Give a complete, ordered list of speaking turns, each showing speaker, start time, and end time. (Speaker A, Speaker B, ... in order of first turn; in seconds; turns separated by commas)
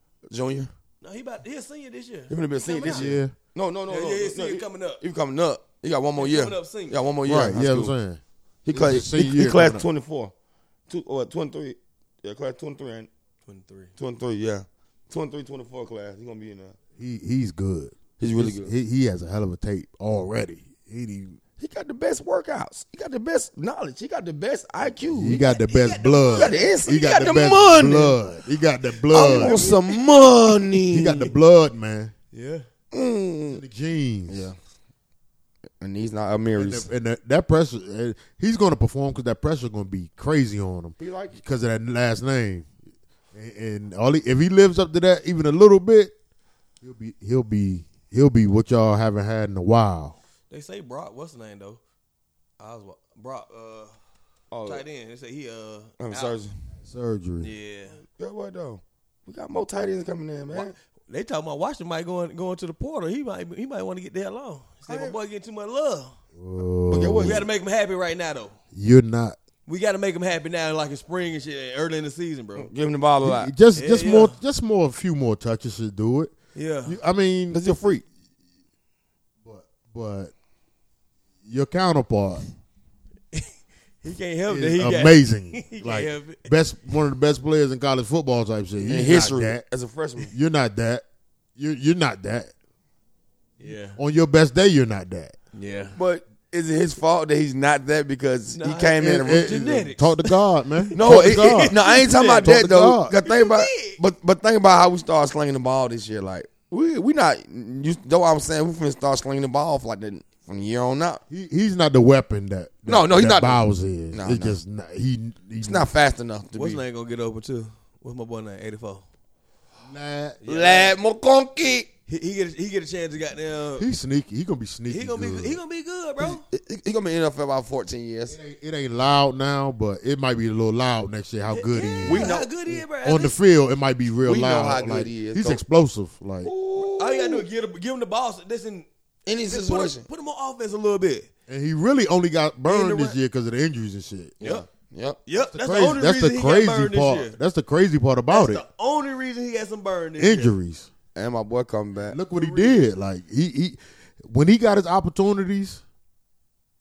Speaker A: 0.3-0.7, Speaker B: 1.0-3.1, Speaker A: 2.3-7.9, Speaker C: 2.9-3.3, Speaker B: 3.9-5.0, Speaker B: 6.2-7.0, Speaker C: 7.2-9.8, Speaker A: 8.7-10.3, Speaker A: 10.9-13.1, Speaker B: 13.5-13.9, Speaker A: 14.0-16.8, Speaker C: 17.0-21.4, Speaker A: 18.2-18.7, Speaker A: 21.6-25.4, Speaker C: 25.1-29.6, Speaker B: 25.3-26.8, Speaker A: 26.3-28.2, Speaker B: 29.1-30.0, Speaker A: 29.1-31.3, Speaker C: 30.9-32.1, Speaker B: 32.3-32.6, Speaker A: 32.9-33.6, Speaker C: 33.5-34.5, Speaker A: 34.3-34.5, Speaker A: 35.8-36.9, Speaker C: 36.5-42.7, Speaker A: 41.0-41.4, Speaker C: 43.3-46.1, Speaker C: 46.8-50.1, Speaker B: 50.5-51.8, Speaker B: 52.6-53.9, Speaker A: 54.5-54.8, Speaker B: 54.6-56.4, Speaker A: 56.0-56.5, Speaker C: 56.8-57.5, Speaker B: 57.4-58.0, Speaker A: 58.2-60.7, Speaker B: 60.5-66.1, Speaker A: 64.9-65.2, Speaker C: 66.3-67.5, Speaker A: 66.9-67.5, Speaker B: 67.2-68.5, Speaker C: 68.7-69.4, Speaker B: 69.7-72.7, Speaker A: 72.6-73.5, Speaker C: 73.2-76.3, Speaker B: 73.7-74.4, Speaker B: 76.5-77.0, Speaker C: 76.8-77.6, Speaker A: 77.5-78.0, Speaker C: 79.4-80.3, Speaker C: 81.4-82.4, Speaker B: 84.0-86.5, Speaker C: 84.5-89.6, Speaker A: 88.9-90.3, Speaker C: 90.3-91.0, Speaker C: 91.5-92.5, Speaker B: 93.6-94.0, Speaker C: 93.9-95.3, Speaker B: 95.5-96.0, Speaker A: 95.9-99.5, Speaker B: 98.5-102.5, Speaker C: 99.0-103.2, Speaker A: 101.0-111.2, Speaker B: 103.2-104.0, Speaker C: 111.3-115.9, Speaker A: 112.9-113.6, Speaker A: 114.1-114.6, Speaker A: 115.6-116.8, Speaker B: 116.5-119.0, Speaker C: 119.8-120.4, Speaker B: 120.4-120.9, Speaker A: 120.5-121.9, Speaker B: 122.1-123.8, Speaker C: 123.8-125.6, Speaker B: 124.9-126.4, Speaker A: 126.2-128.4, Speaker C: 128.3-136.5, Speaker B: 131.5-133.3, Speaker A: 132.0-132.5, Speaker A: 134.2-135.6, Speaker A: 136.4-137.5, Speaker B: 136.8-138.9, Speaker A: 139.2-140.1, Speaker B: 139.4-141.3, Speaker C: 141.5-144.4, Speaker B: 142.7-143.2, Speaker A: 144.4-145.2, Speaker B: 145.3-147.4, Speaker C: 145.3-148.6, Speaker B: 148.3-150.5, Speaker C: 150.2-150.9, Speaker A: 151.1-152.2, Speaker C: 152.0-155.8, Speaker B: 152.3-152.9